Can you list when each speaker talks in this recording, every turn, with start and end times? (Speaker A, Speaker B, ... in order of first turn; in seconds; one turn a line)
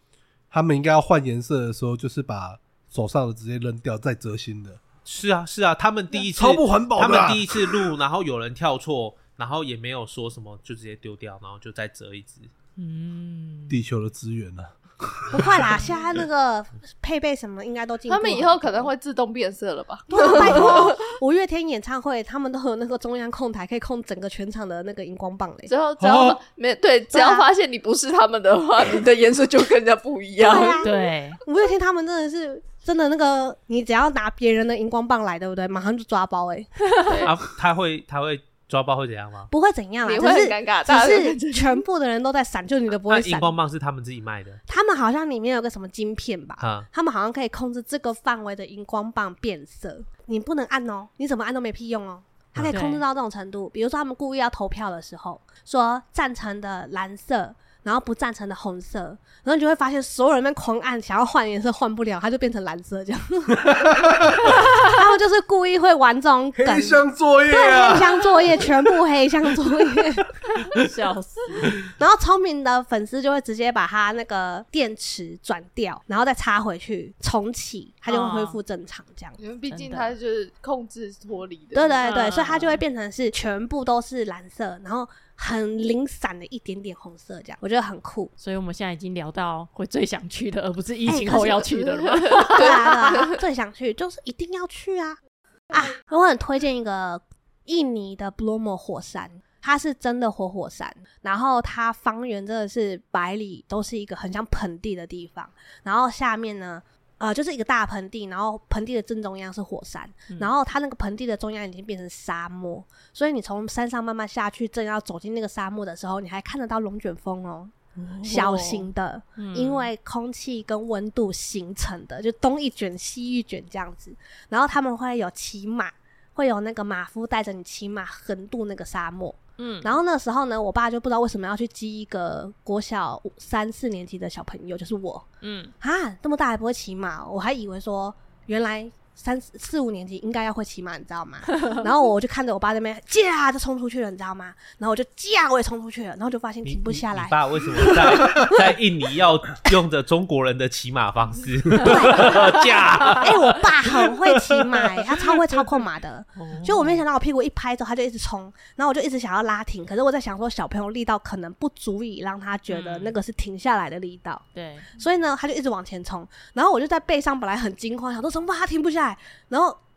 Speaker A: 0.5-4.8
Speaker B: 5.0-12.5
Speaker A: 6.2-7.8
Speaker C: 12.8-13.8
Speaker A: 13.7-15.7
Speaker D: 15.3-18.9
Speaker E: 18.1-21.0
Speaker D: 20.1-25.7
Speaker E: 25.7-30.9
Speaker A: 26.0-26.4
Speaker D: 27.1-27.5
Speaker D: 30.4-36.9
Speaker C: 30.8-31.4
Speaker E: 37.0-37.3
Speaker B: 37.2-39.5
Speaker D: 39.5-43.5
Speaker E: 40.0-41.8
Speaker B: 43.1-44.6
Speaker D: 44.7-63.9
Speaker B: 46.6-46.9
Speaker C: 52.7-53.0
Speaker A: 63.6-64.6
Speaker C: 64.4-64.8
Speaker D: 64.5-70.2
Speaker A: 66.5-68.3
Speaker C: 70.5-71.9
Speaker D: 72.0-79.4
Speaker C: 78.1-78.6
Speaker E: 79.4-82.0
Speaker C: 79.7-80.2
Speaker D: 81.7-88.3
Speaker C: 82.0-82.8
Speaker C: 88.4-93.3
Speaker D: 91.0-91.6
Speaker E: 91.5-93.3
Speaker D: 92.5-95.2
Speaker D: 95.7-135.3
Speaker C: 118.0-119.9
Speaker C: 129.6-130.0
Speaker C: 135.4-135.7
Speaker D: 135.8-148.7
Speaker B: 146.6-153.4
Speaker D: 151.8-169.8
Speaker C: 152.0-152.3
Speaker C: 156.3-157.0
Speaker C: 162.7-163.2
Speaker C: 164.5-164.9